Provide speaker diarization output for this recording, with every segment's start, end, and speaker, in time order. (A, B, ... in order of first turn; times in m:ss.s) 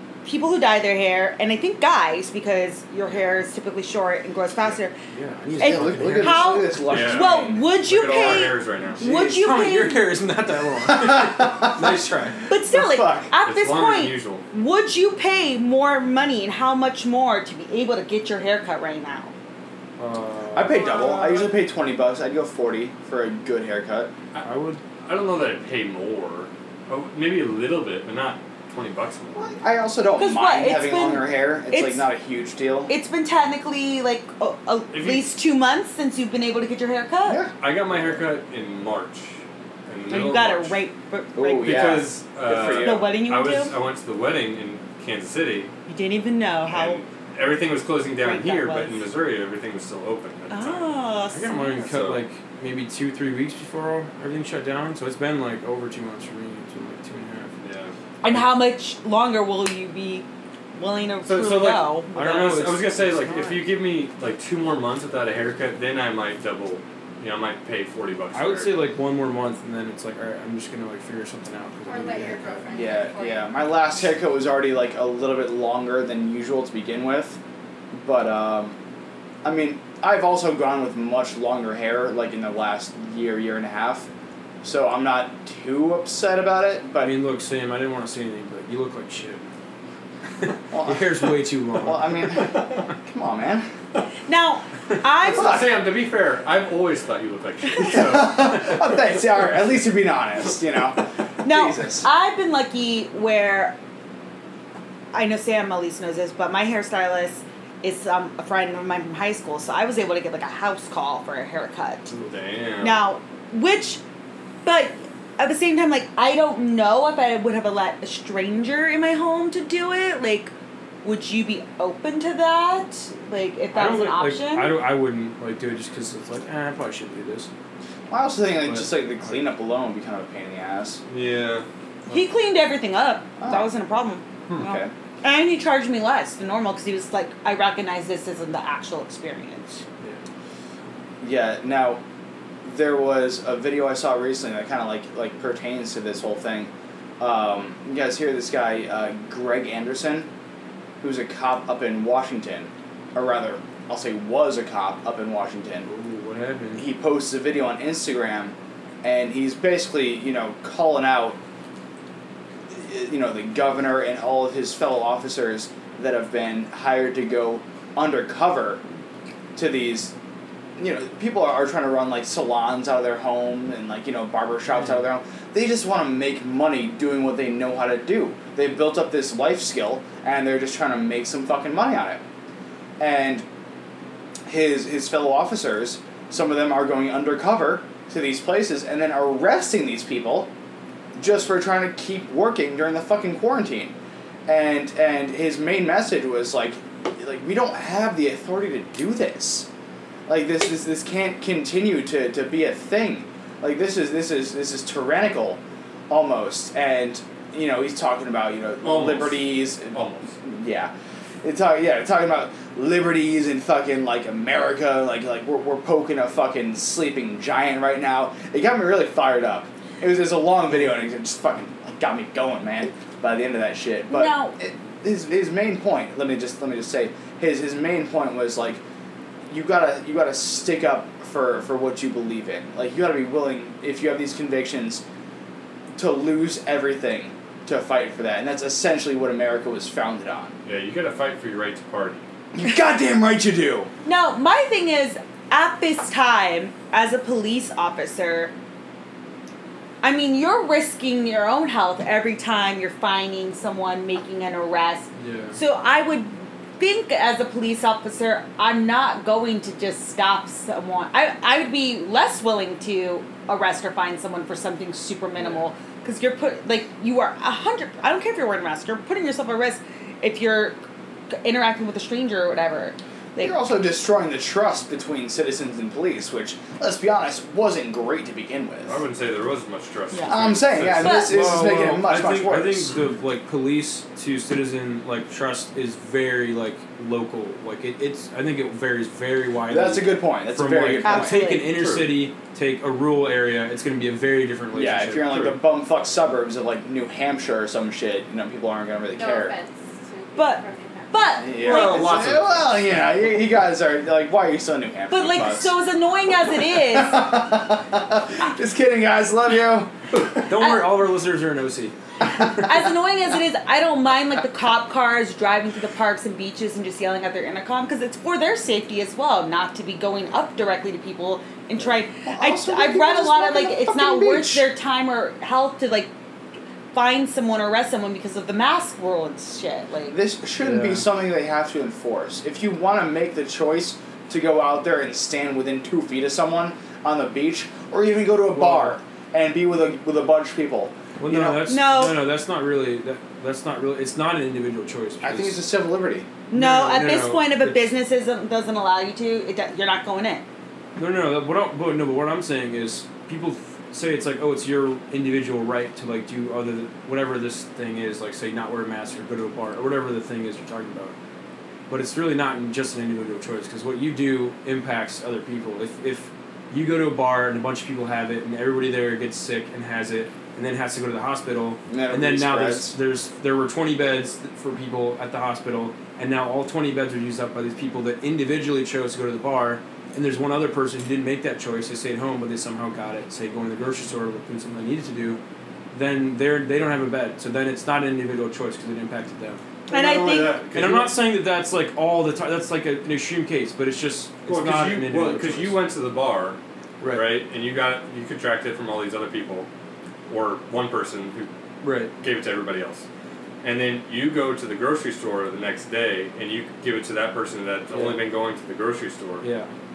0:00.2-0:04.9 A
0:05.1-0:06.8 B
0:05.5-0:07.5 C
0:05.6-0:10.1 A
0:06.8-0:09.0 D
0:09.0-0:09.4 C
0:09.0-0:12.5 B
0:10.8-0:12.0 C
0:12.5-0:19.3 A
0:12.6-0:13.3 C
0:13.4-0:14.4 D
0:20.0-0:21.2 B
0:20.5-0:24.1 C
0:24.4-0:24.8 B
0:25.0-0:29.5 D
0:29.4-0:32.9 C
0:30.2-0:32.1 A
0:32.9-0:37.4 A
0:34.9-0:35.4 D
0:37.2-0:37.5 C
0:37.6-0:40.8 D
0:40.1-0:42.0 A
0:41.3-0:43.1 C
0:41.6-0:45.7 D
0:42.8-0:43.7 A
0:45.9-0:47.0 A
0:46.7-0:51.0 D
0:48.2-0:49.0 A
0:50.5-0:51.8 A
0:51.3-0:57.6 B
0:51.8-0:52.2 D
0:57.6-0:58.4 D
0:58.2-1:02.4 A
1:01.2-1:08.8 D
1:02.1-1:03.6 B
1:08.3-1:12.7 B
1:11.8-1:13.5 E
1:12.7-1:17.4 C
1:17.9-1:18.7 C
1:19.4-1:24.1 C
1:24.6-1:27.2 C
1:27.0-1:29.4 B
1:30.4-1:32.5 B
1:30.7-1:33.7 C
1:34.3-1:35.6 A
1:35.2-1:39.0 D
1:35.4-1:35.6 C
1:37.8-1:42.1 C
1:41.4-1:43.8 A
1:45.1-1:52.1 A
1:52.1-1:53.0 D
1:52.8-1:54.0 A
1:54.6-2:00.5 A
2:01.0-2:04.8 A
2:03.7-2:07.5 B
2:08.1-2:11.0 C
2:08.6-2:09.3 B
2:11.1-2:11.6 D
2:12.1-2:19.8 A
2:13.4-2:13.7 C
2:14.6-2:14.9 C
2:21.2-2:22.0 C
2:22.6-2:30.3 C
2:31.0-2:35.9 C
2:35.8-2:36.9 B
2:36.8-2:41.4 C
2:42.7-2:48.8 C
2:49.5-2:50.1 C
2:50.8-3:02.2 C
3:03.0-3:03.4 C
3:04.4-3:10.5 C
3:11.2-3:13.9 C
3:14.5-3:19.7 C
3:20.3-3:30.9 C
3:28.8-3:30.3 D
3:31.4-3:48.8 C
3:44.1-3:44.6 A
3:49.5-3:55.0 C
3:56.0-4:00.5 C
4:00.6-4:02.2 D
4:02.5-4:03.9 C
4:04.0-4:08.5 A
4:10.0-4:30.8 A
4:15.2-4:15.6 B
4:31.3-4:33.5 A
4:33.4-4:39.0 C
4:38.9-4:41.2 D
4:40.3-4:42.9 C
4:41.0-4:55.5 B
4:41.0-4:41.3 A
4:49.7-4:51.4 C
4:51.0-4:51.8 A
4:51.6-4:52.2 D
4:54.7-4:59.6 C
4:59.1-5:01.5 E
5:00.4-5:02.2 A
5:01.4-5:05.8 C
5:01.6-5:03.1 D
5:05.1-5:07.3 A
5:06.7-5:10.2 C
5:10.4-5:12.7 B
5:10.6-5:10.9 A
5:12.3-5:26.1 A
5:22.2-5:24.7 C
5:26.9-5:30.2 A
5:30.1-5:41.7 C
5:30.6-5:31.0 B
5:38.5-5:39.0 B
5:41.2-5:45.6 B
5:41.6-5:42.2 A
5:45.2-5:46.3 C
5:46.5-5:50.4 A
5:46.5-5:47.9 B
5:51.0-6:01.1 B
6:01.9-6:25.4 B
6:11.9-6:12.9 C
6:25.9-6:29.6 B
6:29.9-6:31.1 D
6:29.9-6:30.6 A
6:30.7-6:35.8 B
6:34.5-6:36.6 D
6:37.0-6:37.3 B
6:37.1-6:39.7 D
6:40.3-6:41.5 D
6:41.8-6:42.1 B
6:42.2-6:43.0 D
6:43.6-6:49.4 D
6:47.9-6:48.2 B
6:49.4-6:49.7 B